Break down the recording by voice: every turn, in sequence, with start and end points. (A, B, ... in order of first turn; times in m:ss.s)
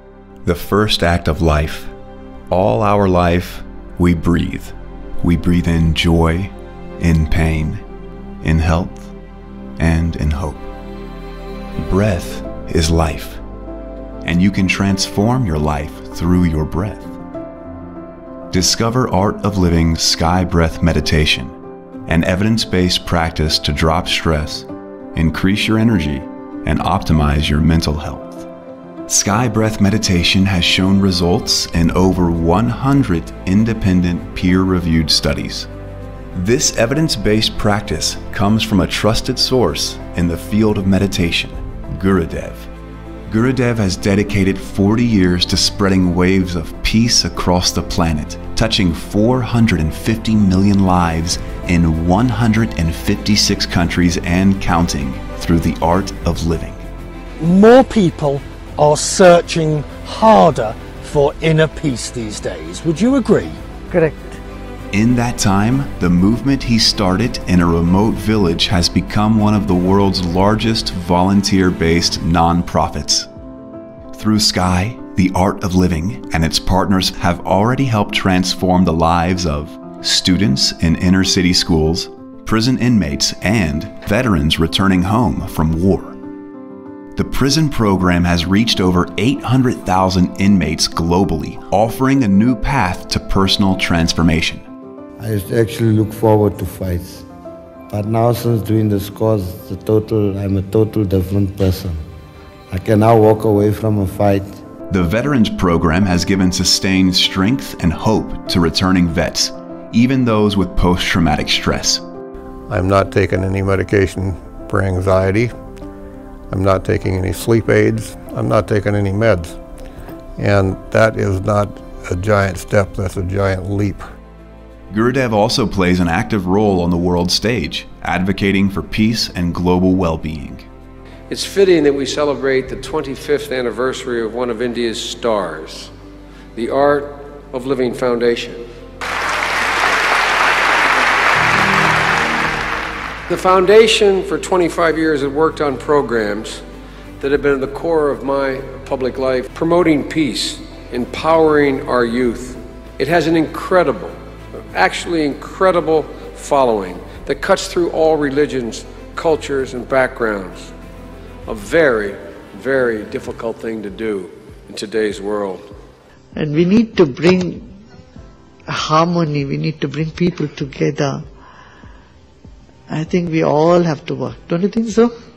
0:00.4-0:01.9 A
0:02.5-0:07.8 A
0:08.4-0:09.1 A
0:09.8-0:10.7 A
0:11.8-0:13.4 A
0:14.2-0:17.2 A
0:18.5-0:21.5 A
0:22.0-0:28.5 A
0:29.1-0:35.7 A
0:36.3-0:42.7 A
0:43.3-0:56.8 A
0:57.4-1:03.6 B
1:04.9-1:13.3 A
1:14.1-1:26.2 A
1:27.1-1:34.6 A
1:35.2-1:37.2 C
1:37.9-1:42.0 C
1:42.7-1:44.6 C
1:44.9-1:52.0 A
1:52.7-1:55.5 D
1:56.5-1:59.5 D
2:00.4-2:04.0 D
2:04.9-2:10.7 A
2:11.3-2:15.9 E
2:16.5-2:18.6 E
2:23.3-2:26.6 E
2:27.2-2:34.1 E
2:34.7-2:40.7 E
2:41.4-2:45.6 E
2:46.3-2:47.6 F
2:48.7-2:51.2 F
2:52.9-2:55.1 F